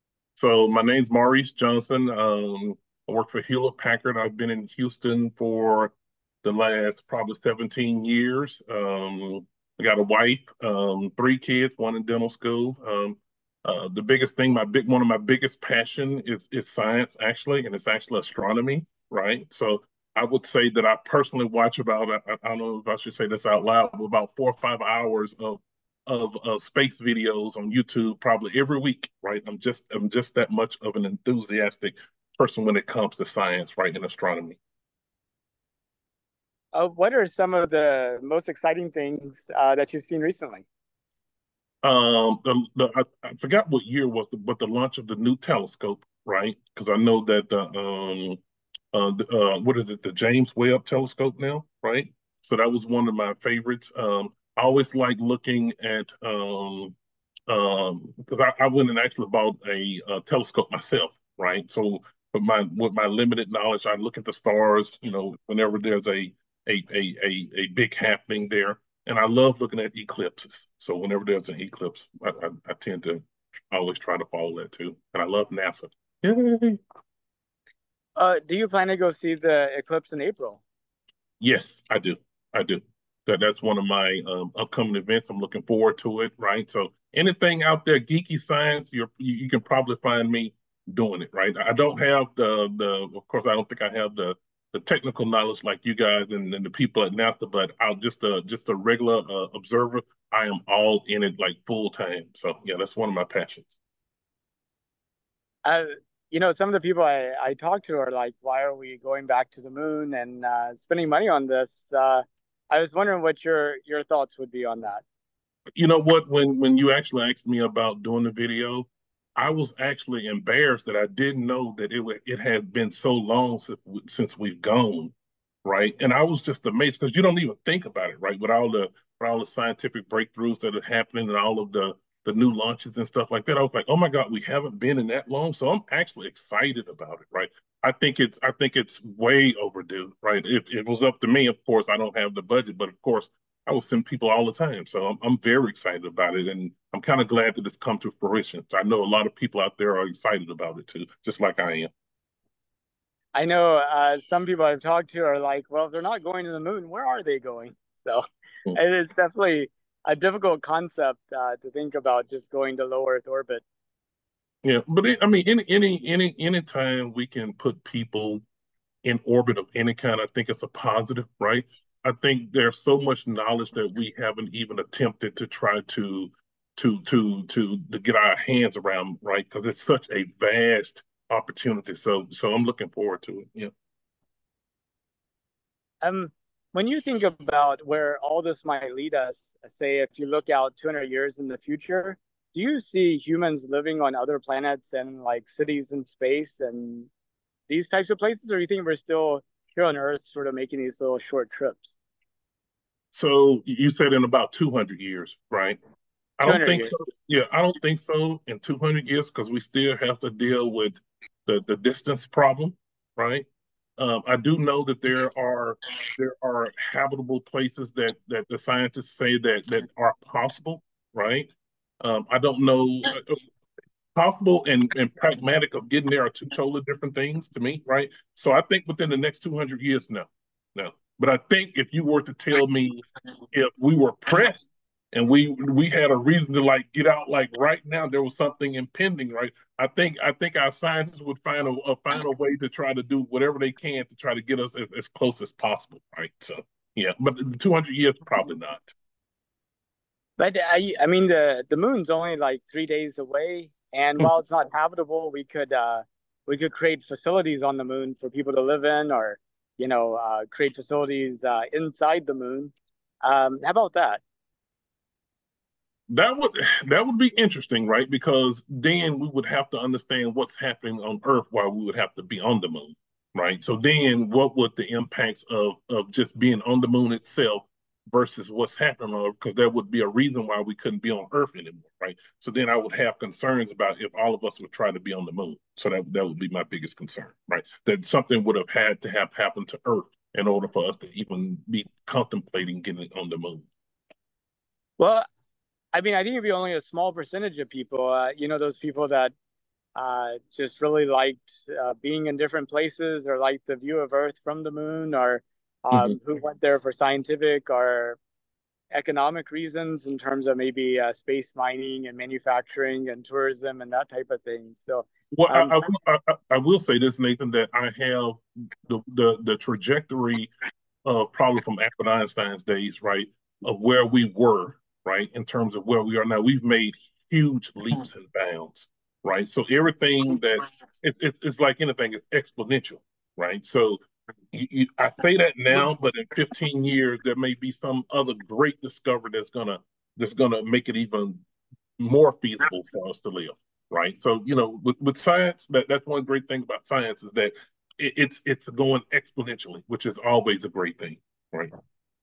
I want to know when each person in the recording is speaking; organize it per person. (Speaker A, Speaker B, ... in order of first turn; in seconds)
Speaker A: 0.4-34.6, 41.8-48.4, 48.9-57.0, 57.5-76.8, 81.4-103.7, 115.8-125.1, 125.6-151.9, 164.6-168.4, 169.0-183.7, 203.1-205.8, 206.4-213.4, 214.0-223.4, 224.1-248.9, 266.1-293.7, 305.9-306.2, 315.3-320.5, 321.0-334.0, 334.5-341.4, 342.0-351.7
Speaker B: 36.7-40.6, 78.2-80.6, 105.6-115.0, 153.3-163.6, 186.0-197.1, 197.7-202.0, 206.4-206.9, 250.4-264.2, 295.0-295.2, 295.9-299.3, 299.9-308.2, 308.9-315.8